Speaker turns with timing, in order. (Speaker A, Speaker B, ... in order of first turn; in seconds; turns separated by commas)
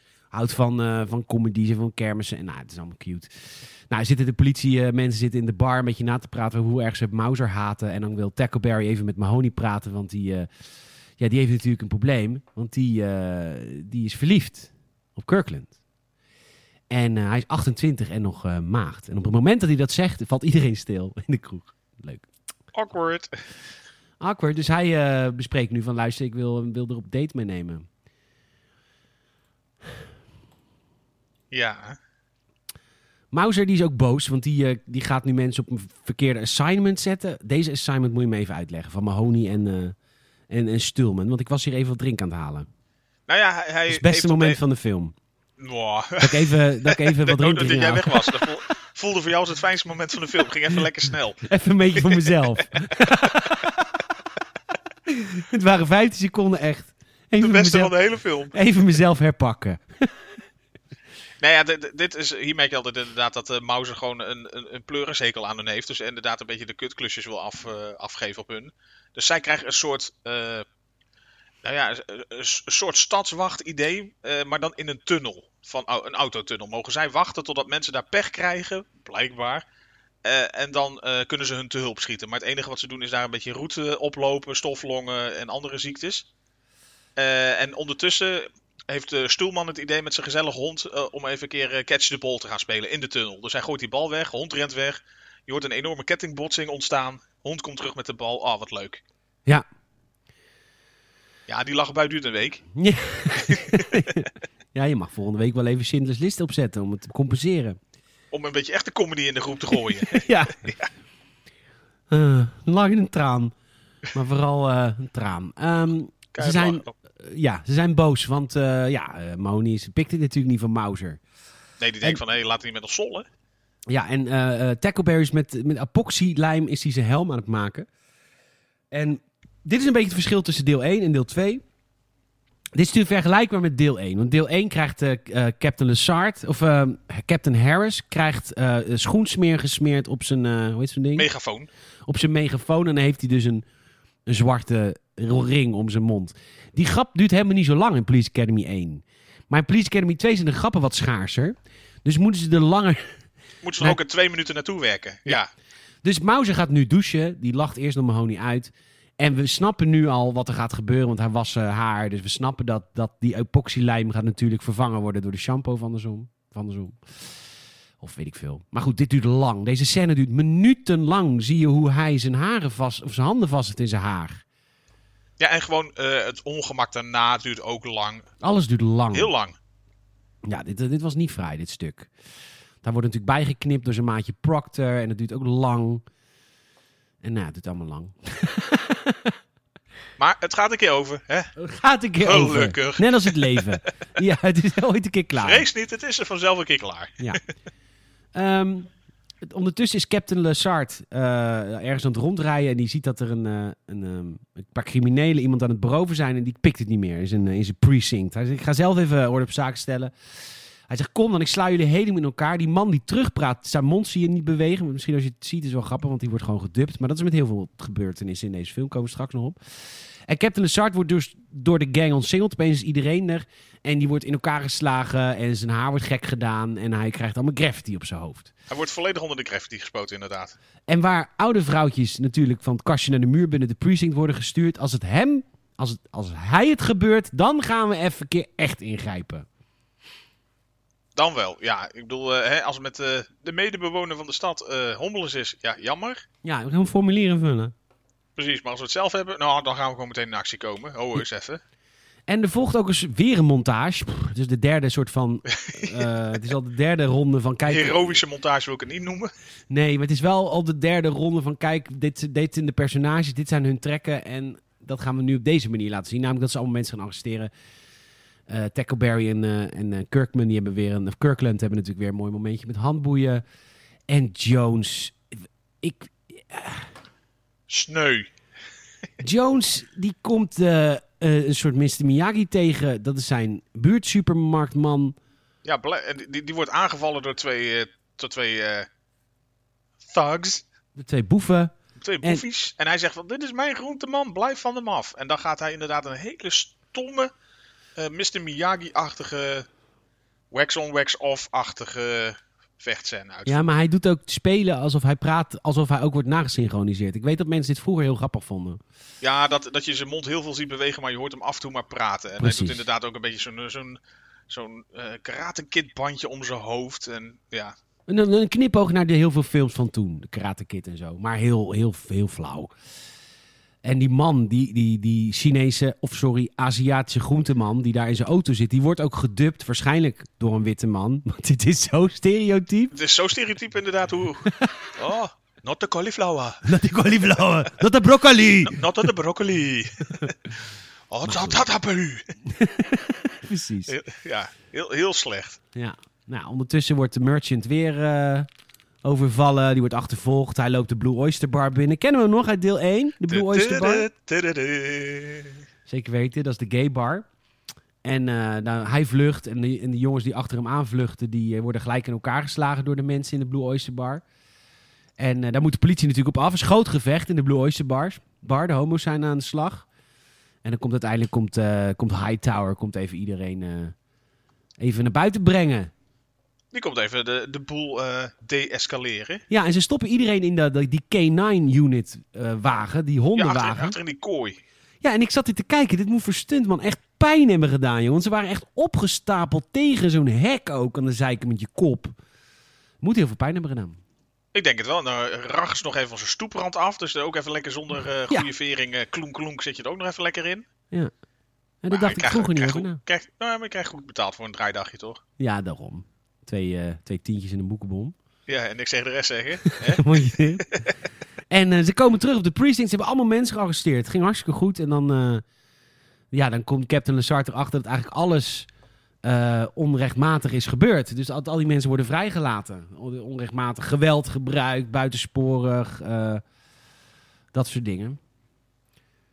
Speaker A: 0.3-3.3, Speaker A: 3.9-10.5, Speaker A: 11.2-15.7, Speaker A: 16.9-22.3, Speaker B: 22.7-23.4, Speaker A: 24.2-27.9, Speaker B: 31.5-32.0, Speaker A: 33.3-40.0, Speaker A: 40.5-42.7, Speaker B: 43.3-44.6, Speaker A: 43.9-45.1, Speaker B: 45.6-51.4, Speaker A: 46.2-48.5, Speaker A: 51.4-54.0, Speaker B: 51.9-53.5, Speaker A: 55.1-57.9, Speaker B: 57.4-58.6, Speaker A: 58.5-60.1, Speaker B: 61.4-70.7, Speaker B: 71.6-79.6, Speaker B: 80.2-86.3, Speaker B: 87.2-99.0, Speaker B: 101.5-102.7, Speaker A: 102.8-107.8, Speaker B: 103.4-104.0, Speaker B: 108.3-110.9, Speaker A: 109.9-110.7, Speaker A: 112.1-113.5, Speaker A: 114.1-121.2, Speaker B: 116.3-116.9, Speaker B: 121.8-123.3, Speaker A: 123.9-127.9, Speaker A: 128.9-131.6, Speaker A: 132.8-141.3, Speaker B: 141.2-141.7, Speaker A: 142.1-143.7, Speaker A: 144.3-153.2, Speaker B: 153.6-155.5, Speaker A: 156.0-167.0, Speaker A: 168.0-174.4, Speaker B: 175.4-178.3, Speaker A: 178.4-179.3, Speaker B: 179.1-179.6, Speaker A: 180.4-182.1, Speaker A: 182.8-186.0, Speaker A: 187.2-189.3, Speaker B: 190.2-191.5, Speaker A: 191.6-195.7, Speaker B: 192.2-193.7, Speaker B: 195.4-197.4, Speaker A: 198.3-198.9, Speaker A: 199.4-210.1, Speaker A: 210.9-219.6, Speaker A: 220.3-228.5, Speaker B: 228.7-230.6, Speaker A: 230.9-239.5, Speaker B: 241.2-246.2, Speaker A: 246.4-247.7, Speaker B: 248.4-251.6, Speaker A: 252.3-258.2, Speaker B: 255.5-256.1, Speaker B: 257.7-259.3, Speaker A: 259.7-267.5, Speaker A: 268.5-273.4, Speaker A: 274.1-275.2, Speaker A: 275.8-276.9, Speaker B: 277.7-278.3, Speaker A: 279.2-285.2, Speaker B: 285.6-288.9, Speaker B: 290.1-290.6, Speaker A: 291.0-292.4, Speaker B: 292.0-297.3, Speaker B: 298.0-299.7, Speaker B: 300.5-303.6, Speaker A: 303.5-308.8, Speaker B: 309.2-317.8, Speaker A: 312.4-312.8, Speaker A: 318.1-322.7, Speaker A: 323.8-332.9, Speaker B: 332.9-337.4, Speaker A: 334.5-334.9, Speaker A: 336.6-338.9, Speaker B: 338.6-340.5, Speaker B: 341.1-342.3, Speaker A: 341.2-341.6, Speaker A: 342.5-343.9, Speaker B: 343.9-345.6, Speaker A: 345.8-348.5, Speaker A: 349.0-354.1, Speaker B: 353.3-355.6, Speaker A: 355.9-357.3, Speaker A: 358.0-364.2, Speaker A: 365.2-369.9, Speaker A: 370.6-373.9, Speaker A: 374.8-375.9, Speaker B: 376.7-379.4, Speaker A: 379.5-384.0, Speaker B: 383.4-384.6, Speaker A: 385.0-392.1, Speaker A: 393.0-394.0, Speaker B: 394.5-400.7, Speaker A: 401.8-403.0, Speaker B: 401.9-405.2, Speaker A: 405.4-408.1, Speaker B: 408.5-410.9, Speaker A: 409.7-410.7, Speaker A: 411.5-415.4, Speaker A: 416.3-418.7, Speaker A: 419.2-426.4, Speaker A: 427.5-428.2